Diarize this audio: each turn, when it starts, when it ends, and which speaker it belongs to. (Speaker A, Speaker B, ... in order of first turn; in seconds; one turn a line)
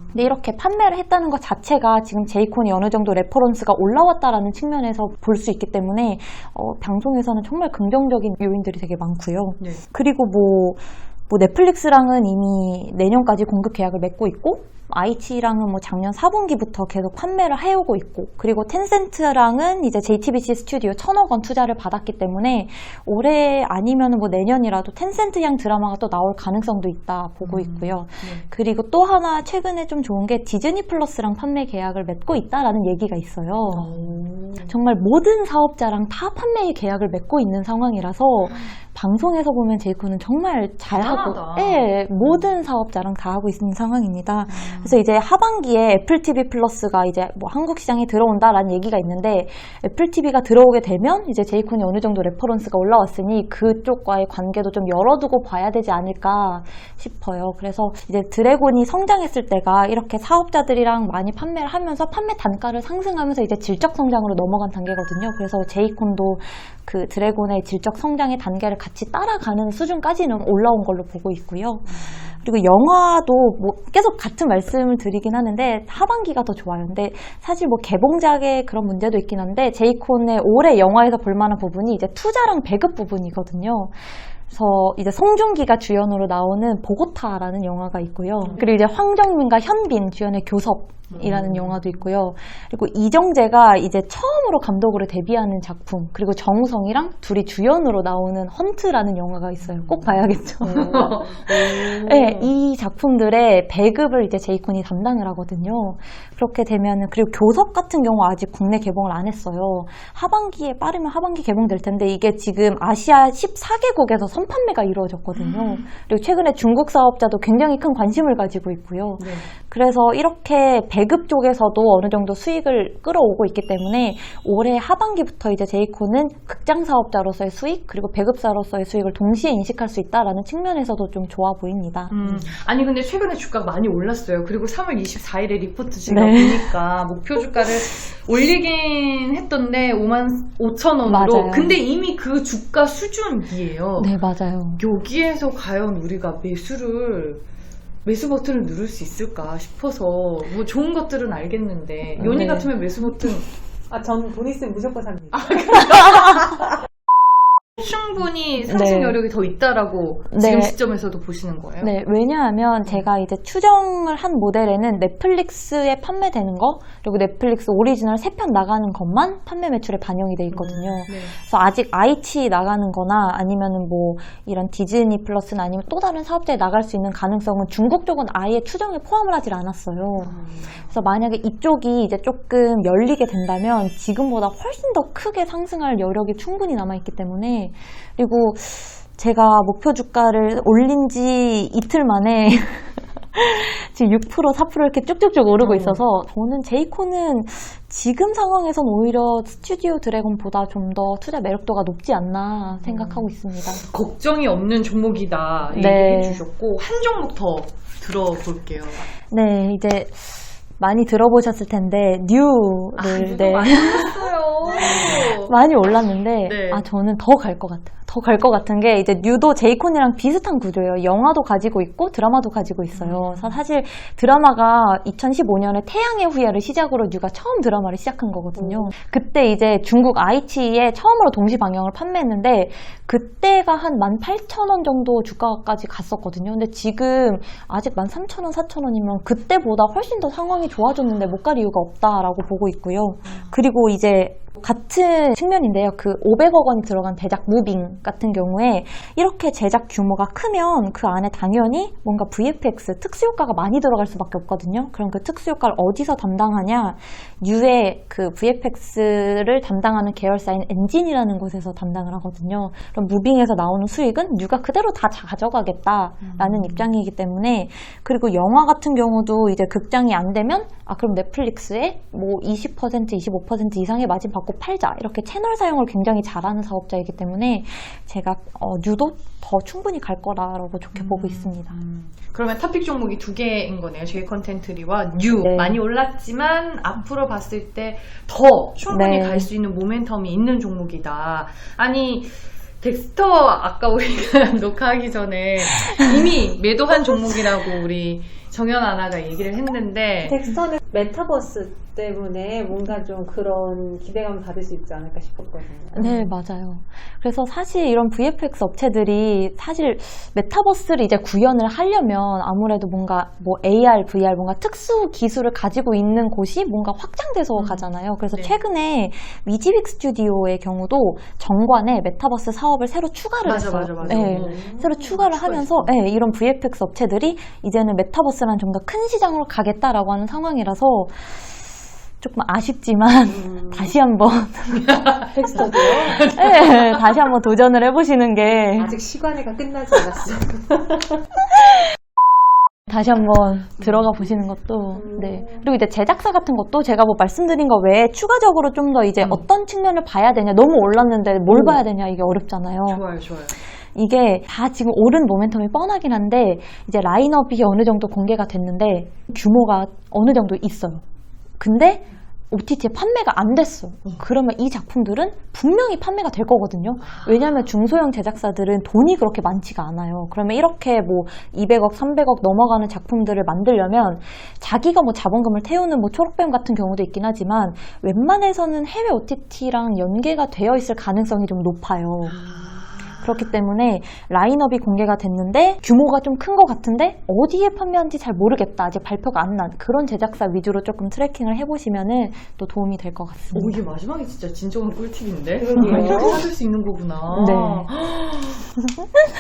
Speaker A: 0.1-132.5
Speaker B: 27.4-28.5
Speaker B: 33.7-34.7
Speaker B: 40.9-42.0
Speaker B: 44.5-45.0
Speaker B: 91.1-91.9
Speaker B: 99.8-102.6
Speaker B: 115.3-115.9
Speaker B: 119.2-119.5
Speaker B: 132.1-144.2
Speaker A: 136.1-136.8
Speaker A: 141.1-141.8
Speaker A: 144.0-144.8
Speaker B: 144.8-147.4
Speaker B: 148.0-153.5
Speaker A: 152.2-152.7
Speaker C: 153.9-155.8
Speaker B: 155.3-156.6
Speaker A: 155.9-156.2
Speaker B: 157.8-161.9
Speaker A: 158.7-159.2
Speaker A: 160.3-160.8
Speaker A: 161.8-203.8
Speaker B: 170.5-171.4
Speaker B: 180.2-180.9
Speaker B: 195.6-196.0
Speaker B: 202.7-209.1
Speaker A: 205.7-206.4
Speaker A: 209.3-214.2
Speaker B: 213.0-215.6
Speaker A: 214.7-281.8
Speaker B: 216.4-216.8
Speaker B: 222.9-223.6
Speaker C: 228.6-228.9
Speaker B: 243.3-243.5
Speaker B: 266.2-266.9
Speaker B: 280.9-300.5
Speaker A: 285.4-285.8
Speaker A: 288.9-289.5
Speaker C: 300.2-306.3
Speaker A: 305.9-331.6
Speaker B: 317.6-318.6
Speaker B: 323.4-325.9
Speaker C: 324.1-324.9
Speaker A: 332.2-338.9
Speaker C: 333.4-333.9
Speaker B: 334.8-335.2
Speaker C: 335.3-336.3
Speaker B: 336.2-336.8
Speaker C: 338.8-341.3
Speaker A: 342.9-353.0
Speaker C: 344.9-345.6
Speaker B: 352.9-353.6
Speaker A: 353.9-361.0
Speaker A: 361.6-382.5
Speaker B: 367.0-367.7
Speaker B: 382.3-383.3
Speaker A: 383.2-393.8
Speaker B: 393.5-398.7
Speaker C: 395.6-396.4
Speaker A: 395.8-396.4
Speaker A: 397.3-397.9
Speaker A: 398.9-399.3